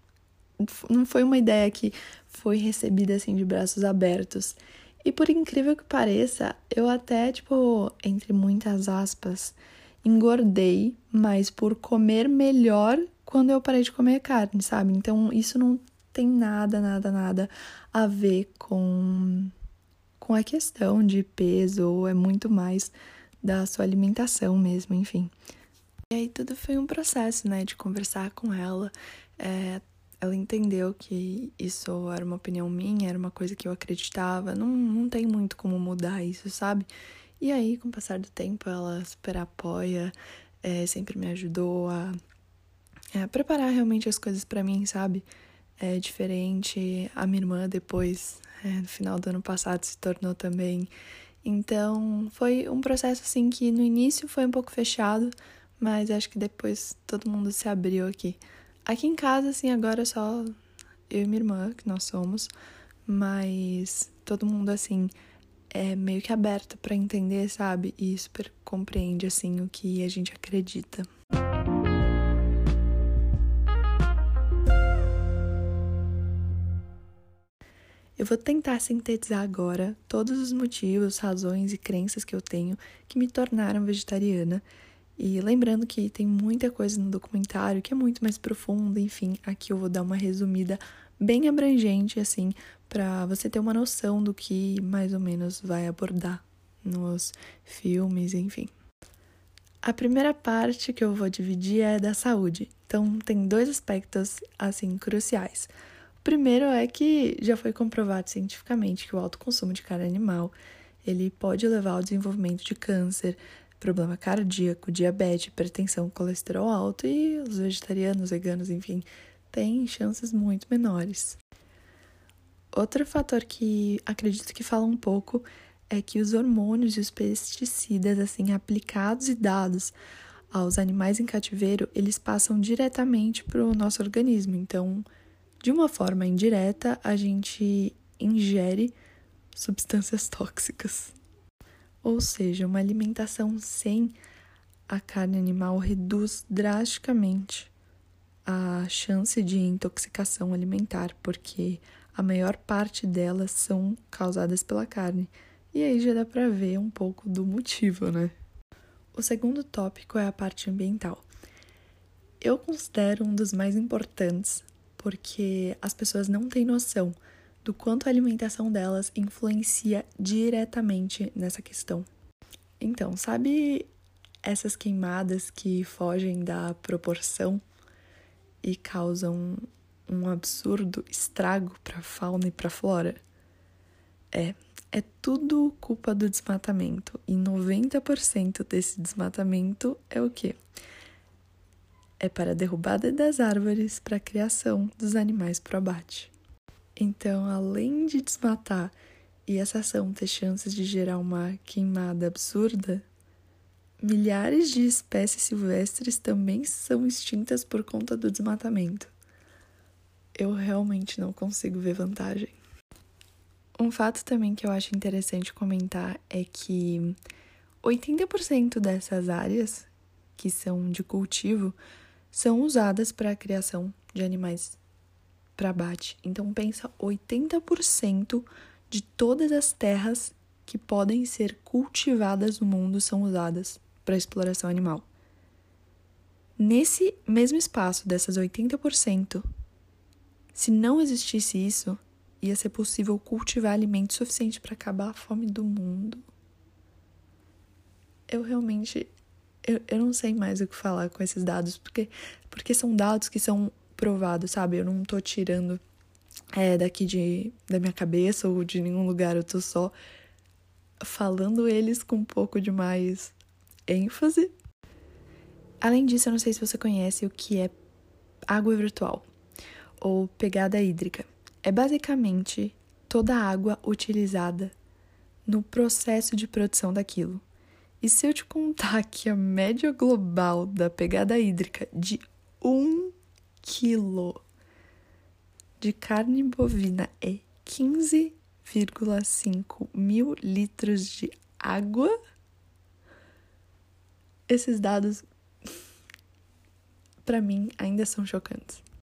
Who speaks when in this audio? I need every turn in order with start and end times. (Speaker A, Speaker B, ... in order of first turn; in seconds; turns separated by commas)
Speaker A: 0.6-19.5, Speaker A: 20.2-25.3, Speaker A: 26.1-36.9, Speaker A: 37.4-42.2, Speaker A: 43.1-45.3, Speaker A: 45.8-50.9, Speaker A: 51.4-60.5, Speaker A: 61.1-62.5, Speaker A: 63.1-65.1, Speaker A: 65.7-71.1, Speaker A: 78.2-84.6, Speaker A: 85.2-98.7, Speaker A: 99.8-105.7, Speaker A: 106.2-121.4, Speaker A: 122.7-129.9, Speaker A: 130.5-135.1, Speaker A: 135.6-138.9, Speaker A: 139.5-141.1, Speaker A: 142.0-144.2, Speaker A: 144.9-147.7, Speaker A: 148.4-158.3, Speaker A: 159.1-161.3, Speaker A: 162.4-172.1, Speaker A: 172.8-173.9, Speaker A: 174.4-177.6, Speaker A: 178.6-183.2, Speaker A: 184.3-190.6, Speaker A: 192.2-196.3, Speaker A: 197.0-198.9, Speaker A: 199.5-203.0, Speaker A: 204.0-209.1, Speaker A: 210.4-212.6, Speaker A: 213.8-217.2, Speaker A: 217.8-221.8, Speaker A: 222.3-224.8, Speaker A: 225.6-235.1, Speaker A: 236.6-239.4, Speaker A: 240.6-246.2, Speaker A: 248.3-249.1, Speaker A: 249.6-255.8, Speaker A: 256.6-259.9, Speaker A: 261.0-263.4, Speaker A: 263.9-264.5, Speaker A: 265.8-267.8, Speaker A: 268.5-269.3, Speaker A: 270.0-274.7, Speaker A: 275.5-277.4, Speaker A: 278.0-284.4, Speaker A: 285.8-292.1, Speaker A: 294.5-295.3, Speaker A: 297.2-298.8